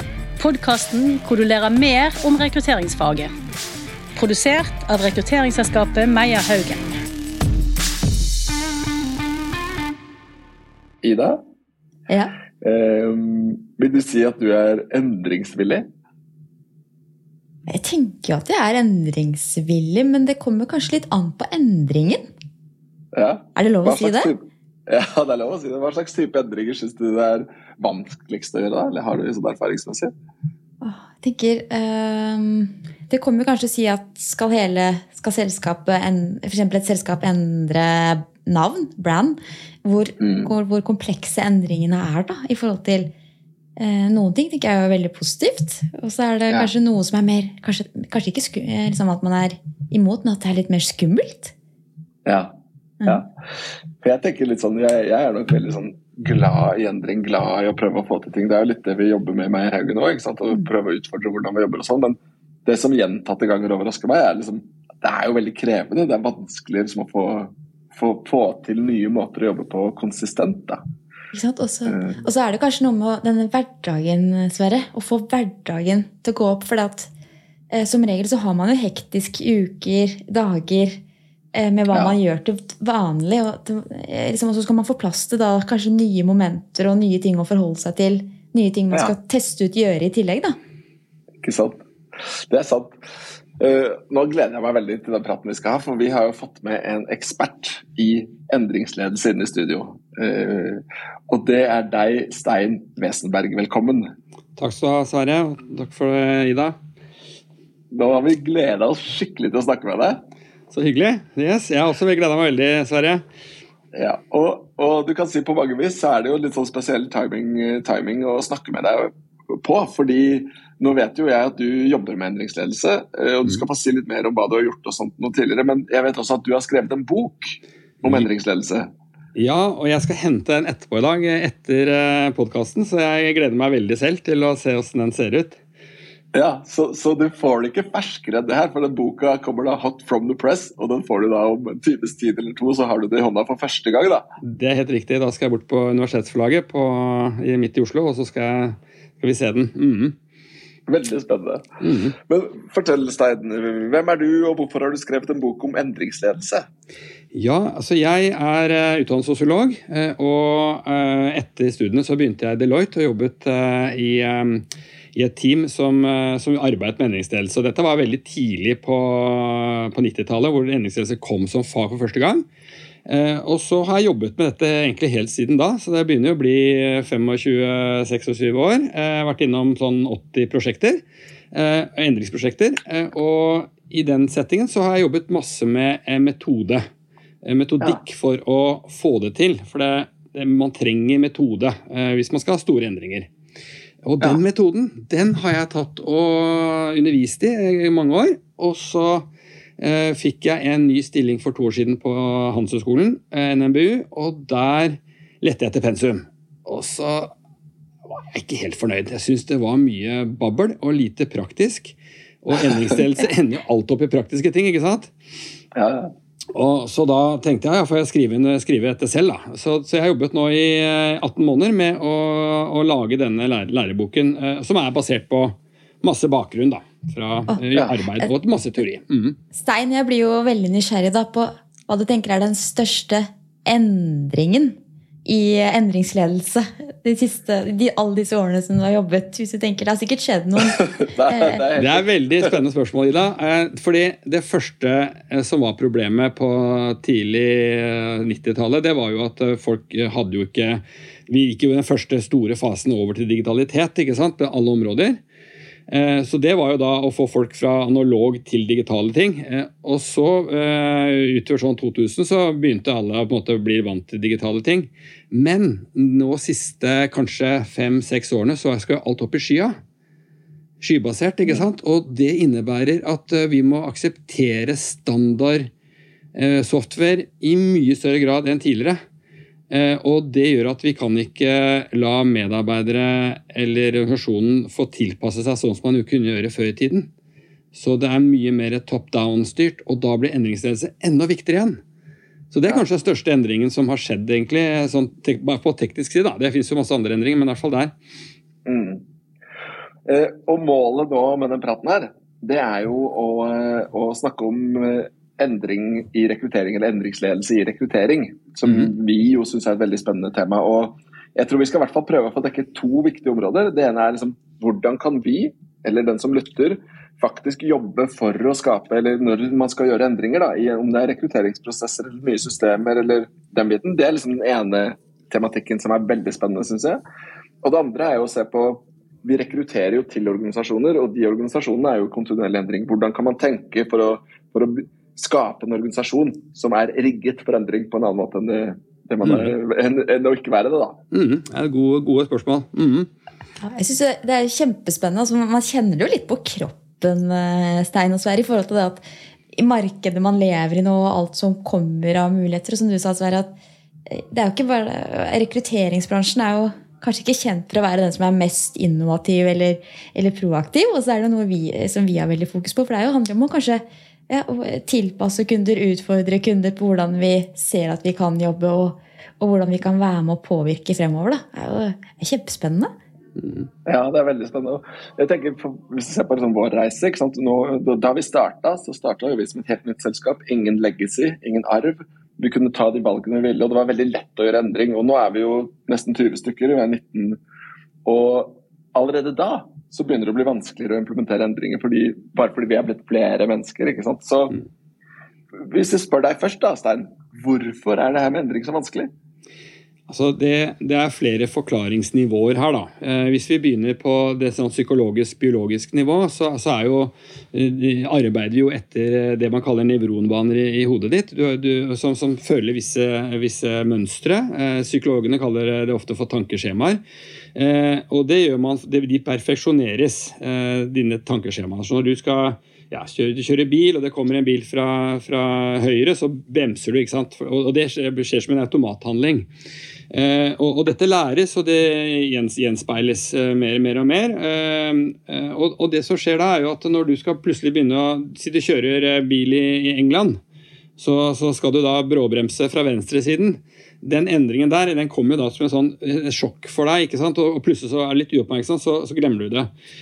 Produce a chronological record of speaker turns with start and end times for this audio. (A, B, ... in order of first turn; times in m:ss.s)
0:00.4-0:03.3 A
0:04.2-0:06.9 A
0:11.0-0:11.4 B
0:12.1-0:12.4 C
0:12.6-0:15.9 B
0:17.7-0:22.3 C
0:23.1-0:30.1 B
0:23.6-0:24.3 C
0:30.8-0:43.1 C
0:40.2-0:40.5 B
0:43.8-0:51.5 C
0:52.2-0:53.3 B
0:54.0-1:10.8 B
1:11.3-1:17.1 C
1:11.9-1:12.2 B
1:17.7-1:21.0 C
1:21.6-1:30.6 C
1:21.9-1:22.2 B
1:31.4-1:33.0 B
1:33.6-1:44.1 B
1:44.6-1:46.8 D
1:47.9-1:50.2 B
1:50.7-1:53.2 D
1:53.9-2:08.9 B
2:08.0-2:08.3 D
2:09.4-2:15.6 D
2:16.3-2:24.3 B
2:24.4-2:30.2 D
2:30.9-2:36.7 B
2:31.8-2:32.2 D
2:37.3-2:52.5 D
2:53.1-3:01.0 D
3:01.5-3:06.8 D
3:07.4-3:13.3 D
3:14.0-3:19.3 D
3:19.8-3:27.3 D
3:28.1-3:35.1 D
3:35.8-3:36.1 B
3:36.5-3:49.4 D
3:49.5-4:01.6 C
4:00.7-4:02.6 B
4:01.8-4:15.2 D
4:15.9-4:29.8 D
4:30.8-4:35.7 D
4:36.4-4:39.0 D
4:39.7-4:47.1 D
4:47.7-4:51.8 D
4:52.5-4:57.9 D
4:58.6-4:59.0 B
5:00.1-5:27.0 B
5:27.6-5:41.0 B
5:39.2-5:39.6 D
5:41.1-5:43.1 D
5:43.6-5:49.0 C
5:49.6-5:53.5 C
5:54.1-6:12.9 C
6:13.9-6:27.4 B
6:28.0-6:34.6 B
6:35.5-6:39.1 B
6:40.1-6:57.0 D
6:57.6-7:09.5 D
7:10.1-7:20.4 D
7:21.0-7:29.7 D